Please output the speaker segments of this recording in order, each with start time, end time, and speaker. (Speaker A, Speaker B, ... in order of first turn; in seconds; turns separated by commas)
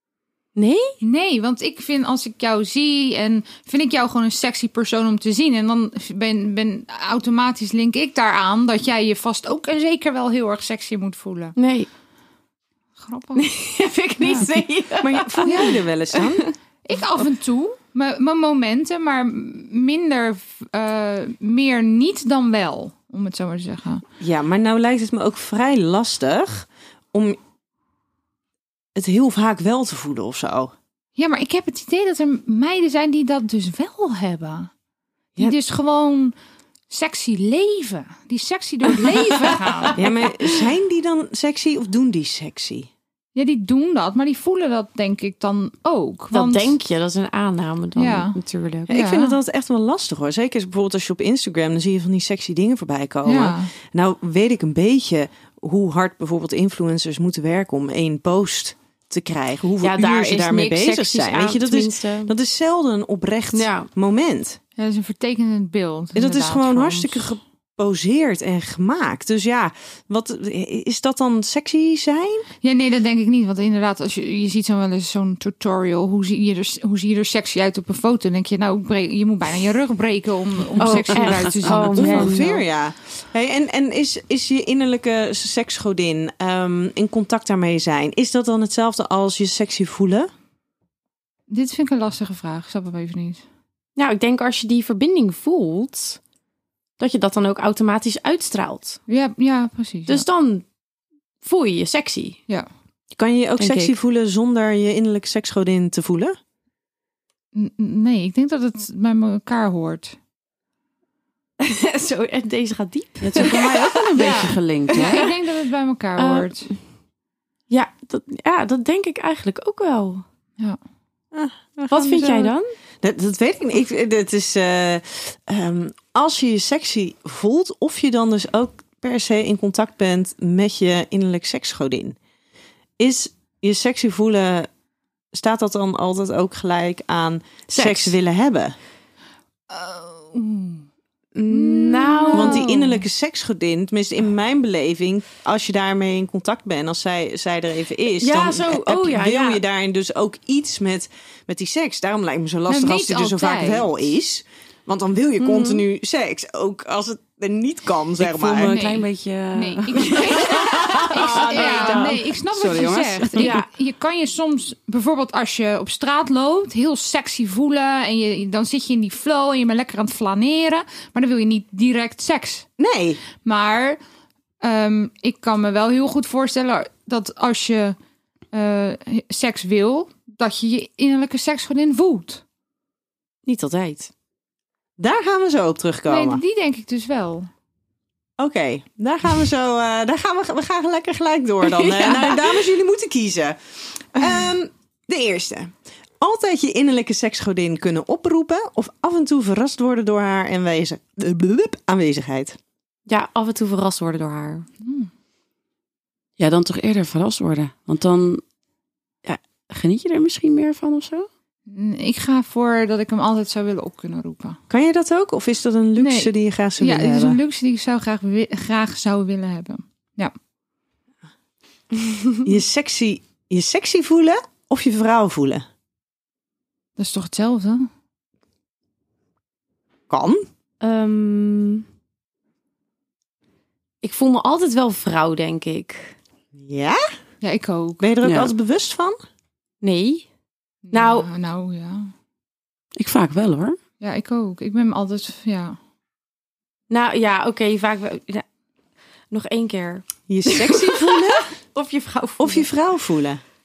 Speaker A: 0.6-0.9, Speaker B: 1.0-11.6, Speaker A: 11.6-11.9, Speaker B: 13.0-13.5, Speaker A: 13.4-16.5, Speaker B: 14.2-14.5, Speaker C: 15.0-16.5, Speaker B: 15.4-15.8, Speaker B: 16.9-24.0, Speaker C: 24.2-27.4, Speaker C: 29.0-30.7, Speaker B: 31.2-34.7, Speaker B: 35.4-36.4, Speaker B: 36.9-40.1, Speaker A: 40.0-40.3, Speaker C: 40.0-42.9, Speaker B: 43.4-46.8, Speaker A: 46.3-48.9, Speaker B: 48.0-48.4, Speaker C: 48.9-64.6, Speaker B: 48.9-49.4, Speaker B: 53.2-53.7, Speaker A: 59.8-62.3, Speaker A: 63.5-63.9, Speaker B: 64.8-67.2, Speaker C: 66.2-72.5, Speaker B: 72.6-82.6, Speaker A: 80.8-82.5, Speaker C: 81.6-90.3, Speaker B: 91.5-93.4, Speaker A: 94.0-96.2, Speaker A: 97.0-99.0, Speaker B: 99.1-100.3, Speaker A: 100.1-100.7, Speaker A: 101.4-102.4, Speaker C: 103.1-106.4, Speaker A: 103.6-103.9, Speaker B: 107.5-110.2, Speaker A: 111.6-115.3, Speaker D: 113.2-115.3, Speaker B: 114.2-116.7, Speaker A: 116.2-116.5, Speaker A: 117.7-120.2, Speaker C: 121.3-132.2, Speaker A: 121.9-122.7, Speaker C: 133.0-134.7, Speaker C: 135.3-138.8, Speaker A: 137.7-138.2, Speaker B: 139.7-140.9, Speaker A: 141.4-142.8, Speaker C: 141.5-158.8, Speaker B: 141.5-142.7, Speaker A: 148.2-149.6, Speaker B: 152.7-153.9, Speaker A: 155.4-155.8, Speaker D: 158.2-163.6, Speaker B: 158.6-172.7, Speaker A: 160.2-162.2, Speaker A: 163.4-163.7, Speaker C: 172.8-173.2, Speaker B: 173.4-174.0, Speaker B: 174.6-178.0, Speaker B: 178.5-182.4, Speaker A: 183.5-184.1, Speaker C: 185.0-186.4, Speaker B: 186.1-187.5, Speaker C: 188.4-202.6, Speaker A: 191.6-192.5, Speaker A: 203.1-204.7, Speaker B: 204.8-205.1, Speaker D: 206.4-208.4, Speaker D: 209.3-211.3, Speaker B: 211.7-214.6, Speaker C: 214.7-217.4, Speaker B: 216.0-220.3, Speaker C: 222.4-225.7, Speaker B: 227.0-227.9, Speaker C: 230.1-230.4, Speaker A: 230.8-231.8, Speaker A: 234.0-236.2, Speaker C: 236.6-237.0, Speaker B: 237.4-238.1, Speaker C: 238.0-239.2, Speaker D: 238.2-238.5, Speaker A: 239.8-240.3, Speaker B: 240.9-242.1, Speaker A: 240.9-241.3, Speaker D: 243.0-243.8, Speaker B: 244.0-245.8, Speaker A: 246.9-248.4, Speaker A: 249.3-252.7, Speaker C: 250.3-251.5, Speaker C: 252.4-253.4